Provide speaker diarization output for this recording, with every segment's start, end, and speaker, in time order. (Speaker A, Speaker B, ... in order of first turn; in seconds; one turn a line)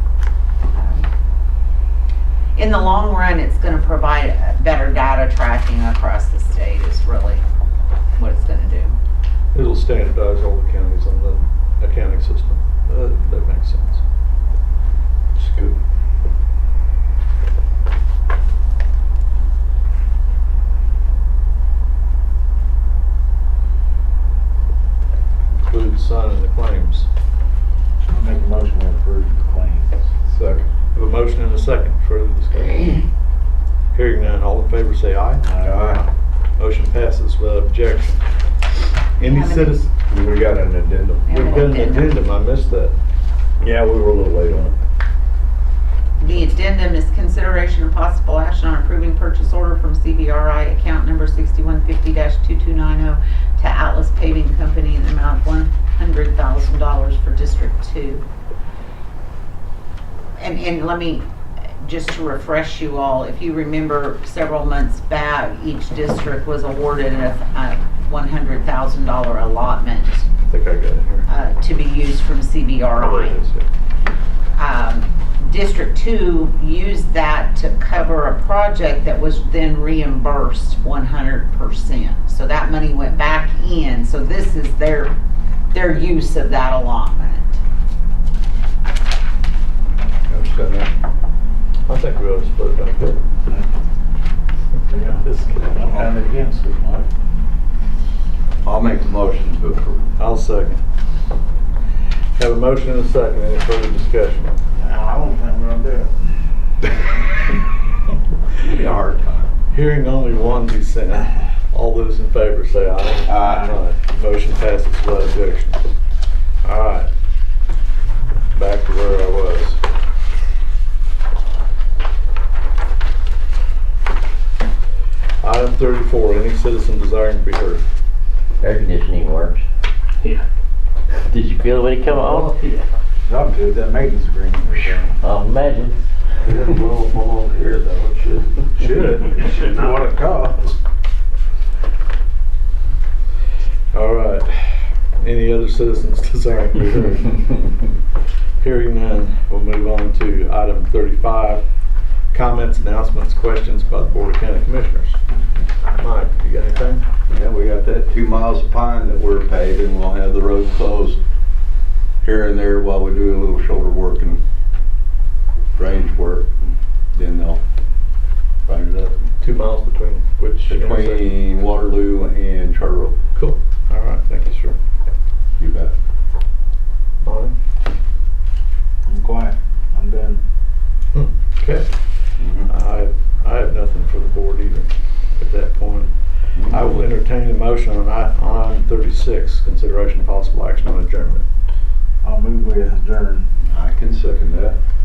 Speaker A: 0.7-1.1
Speaker A: 2.5-7.4
Speaker A: 8.2-9.0
Speaker B: 9.5-14.0
Speaker B: 15.3-15.8
Speaker B: 25.4-27.1
Speaker C: 28.1-30.1
Speaker D: 30.3-30.6
Speaker B: 30.9-33.0
Speaker B: 33.9-35.7
Speaker C: 35.4-35.9
Speaker D: 35.6-36.1
Speaker B: 36.6-38.2
Speaker B: 39.2-39.9
Speaker A: 39.2-39.8
Speaker D: 40.1-41.2
Speaker A: 41.3-42.2
Speaker B: 41.3-42.9
Speaker D: 43.6-44.7
Speaker A: 46.2-58.2
Speaker A: 60.4-61.3
Speaker A: 61.8-70.3
Speaker B: 70.5-71.3
Speaker A: 71.3-73.4
Speaker B: 73.0-73.7
Speaker A: 74.5-85.1
Speaker A: 85.7-87.6
Speaker D: 90.3-90.9
Speaker B: 91.9-93.2
Speaker C: 93.5-93.7
Speaker C: 94.9-97.1
Speaker B: 94.9-96.1
Speaker D: 98.6-100.1
Speaker B: 100.2-100.8
Speaker B: 102.3-104.6
Speaker C: 104.7-106.1
Speaker D: 108.5-109.5
Speaker B: 109.7-115.8
Speaker D: 113.2-113.7
Speaker B: 116.6-117.1
Speaker B: 118.5-119.8
Speaker B: 125.4-127.8
Speaker E: 128.6-129.6
Speaker E: 131.3-132.6
Speaker C: 133.3-135.2
Speaker E: 135.2-135.9
Speaker B: 136.4-138.6
Speaker C: 138.8-140.7
Speaker B: 143.9-147.6
Speaker B: 148.6-151.6
Speaker B: 152.3-155.2
Speaker B: 155.9-157.0
Speaker D: 157.3-161.2
Speaker D: 162.2-164.4
Speaker D: 165.7-166.5
Speaker D: 167.1-167.6
Speaker D: 168.7-169.3
Speaker B: 169.4-171.3
Speaker D: 170.7-173.2
Speaker B: 173.3-174.8
Speaker D: 175.6-175.9
Speaker B: 177.2-177.6
Speaker C: 179.1-180.4
Speaker B: 181.1-181.9
Speaker D: 182.4-182.7
Speaker B: 182.7-186.1
Speaker D: 186.6-186.8
Speaker B: 186.6-191.4
Speaker C: 192.2-193.5
Speaker D: 193.6-194.8